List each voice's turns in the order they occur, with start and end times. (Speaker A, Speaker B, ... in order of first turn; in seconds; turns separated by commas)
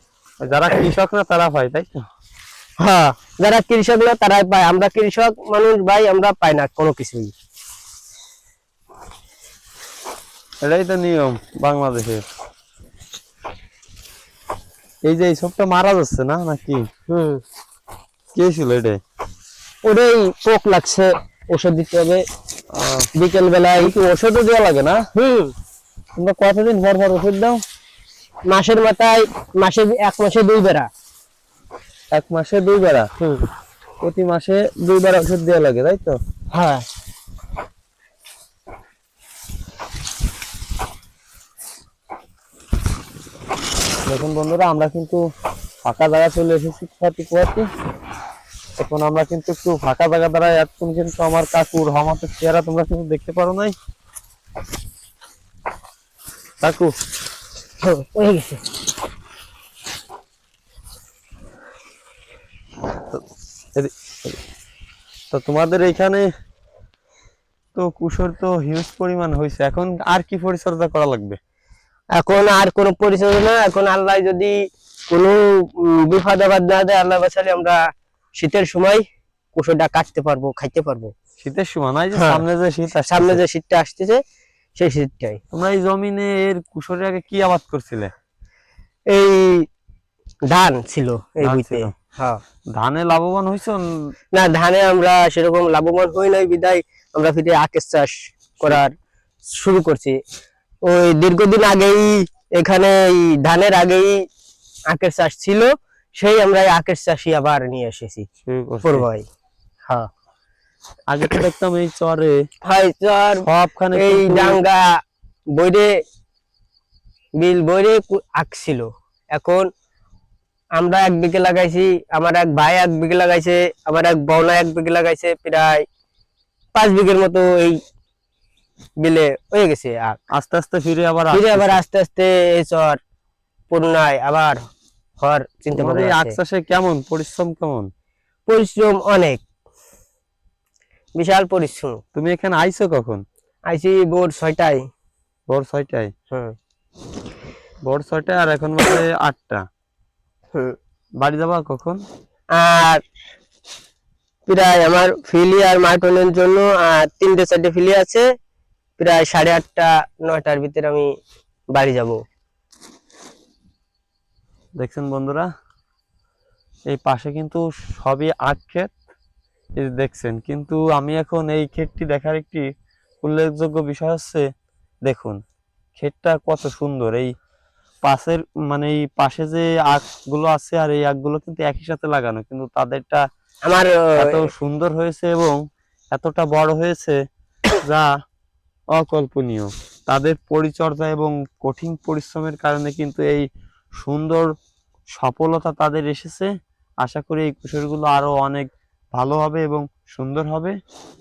Speaker A: 0.4-2.0, Speaker B: 2.8-7.3, Speaker A: 10.6-12.2, Speaker A: 15.1-16.8, Speaker B: 17.1-17.4, Speaker A: 18.3-19.0, Speaker B: 19.9-22.2, Speaker A: 22.7-23.1, Speaker B: 23.2-23.9, Speaker A: 23.8-25.0, Speaker B: 25.1-25.5, Speaker A: 26.1-27.6, Speaker B: 28.5-30.9, Speaker A: 32.1-33.1, Speaker A: 34.0-36.2, Speaker B: 36.5-36.8, Speaker A: 44.1-45.2, Speaker A: 45.9-47.7, Speaker A: 48.8-53.8, Speaker A: 56.6-56.9, Speaker B: 57.8-58.6, Speaker A: 63.8-64.3, Speaker A: 65.3-66.3, Speaker A: 67.8-71.4, Speaker B: 72.2-74.5, Speaker B: 75.1-75.4, Speaker B: 76.0-77.8, Speaker B: 78.4-79.0, Speaker B: 79.5-81.1, Speaker A: 81.4-83.4, Speaker B: 82.2-82.4, Speaker B: 83.0-84.2, Speaker B: 84.8-85.4, Speaker A: 85.5-88.1, Speaker B: 89.1-89.6, Speaker B: 90.5-92.4, Speaker A: 91.4-91.9, Speaker A: 92.7-94.1, Speaker B: 94.4-98.9, Speaker B: 99.5-100.2, Speaker B: 100.9-104.1, Speaker B: 104.9-105.7, Speaker B: 106.2-108.2, Speaker A: 108.5-109.1, Speaker B: 108.8-109.2, Speaker A: 111.1-112.4, Speaker B: 112.7-113.4, Speaker A: 113.4-114.6, Speaker B: 114.0-114.8, Speaker B: 115.5-115.9, Speaker B: 117.4-119.7, Speaker B: 120.8-125.8, Speaker B: 126.8-127.8, Speaker B: 129.0-130.2, Speaker A: 130.3-131.8, Speaker B: 131.3-133.0, Speaker B: 133.7-134.6, Speaker B: 135.2-136.4, Speaker A: 135.7-137.9, Speaker B: 138.5-139.4, Speaker B: 141.2-142.0, Speaker A: 142.2-143.2, Speaker B: 143.7-144.8, Speaker A: 145.5-146.1, Speaker A: 147.8-149.6, Speaker A: 151.2-152.0, Speaker B: 152.6-153.0, Speaker B: 154.5-158.2, Speaker B: 159.0-161.1, Speaker B: 161.8-162.2, Speaker A: 164.8-165.5, Speaker A: 166.9-168.9, Speaker A: 169.8-172.6, Speaker A: 173.2-174.5, Speaker A: 175.1-175.4, Speaker A: 176.0-177.3, Speaker A: 178.0-183.2, Speaker B: 183.7-184.3, Speaker A: 184.2-185.6, Speaker A: 186.1-187.2, Speaker A: 187.8-188.1, Speaker A: 188.9-193.5, Speaker A: 194.0-194.5, Speaker A: 195.1-196.5, Speaker A: 197.0-200.8